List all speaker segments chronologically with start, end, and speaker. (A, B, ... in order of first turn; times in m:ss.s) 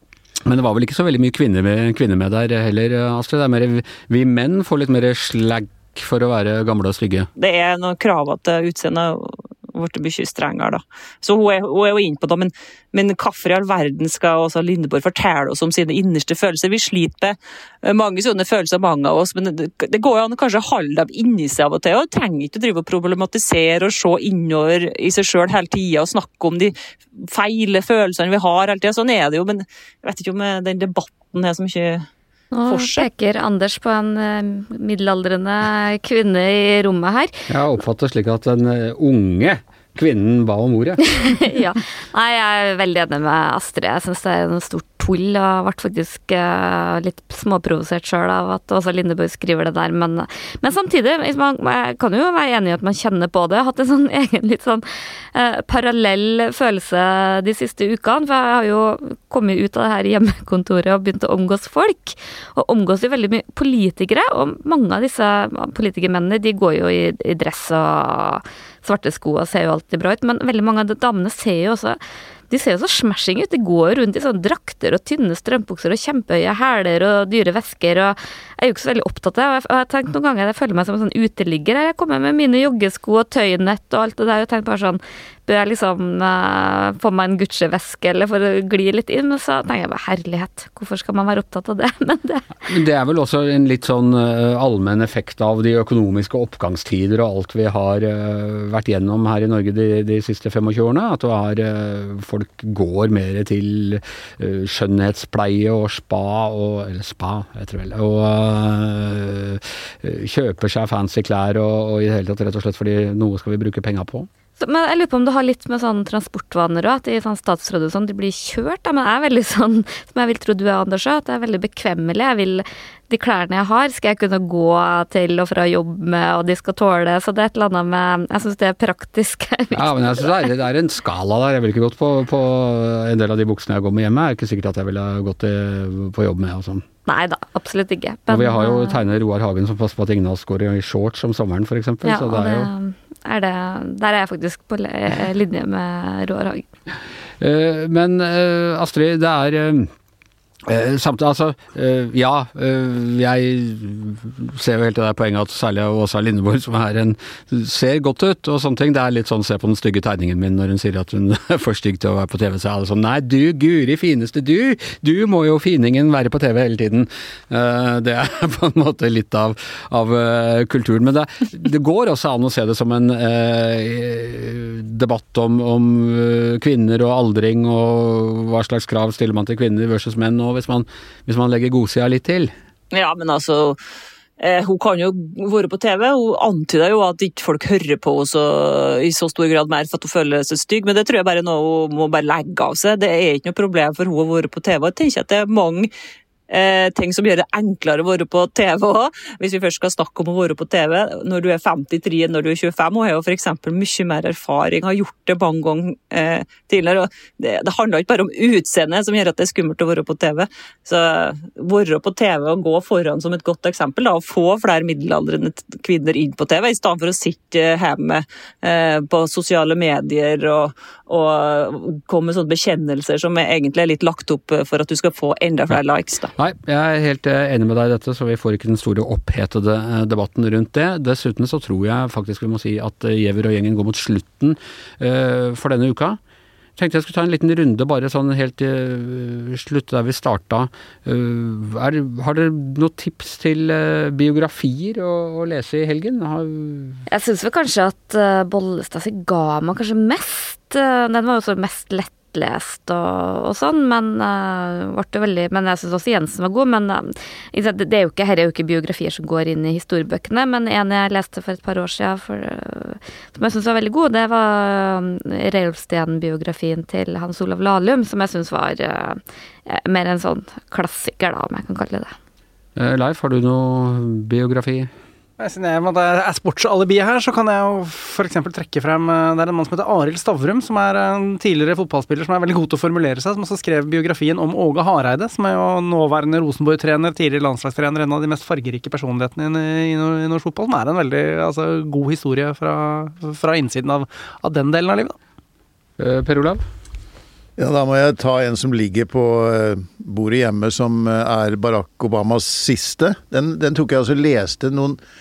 0:00.4-0:07.3 A
0:07.4-0:32.1 B
0:32.5-0:37.3 C
0:32.7-0:33.1 B
0:37.5-0:41.0 A
0:41.2-1:12.0 C
1:12.5-1:32.5 C
1:32.7-1:54.3 A
1:54.6-2:10.4 C
2:09.7-2:16.8 A
2:17.1-2:19.0 C
2:18.3-2:22.7 A
2:22.0-2:26.6 C
2:27.4-2:29.9 A
2:30.6-3:02.5 A
3:02.9-3:03.8 B
3:04.4-3:15.9 B
3:16.5-3:46.3 B
3:46.4-3:56.2 A
3:56.8-4:07.0 A
4:07.1-4:32.2 C
4:32.8-4:34.9 A
4:35.4-4:55.2 D
4:56.0-4:56.6 A
4:57.6-5:05.0 E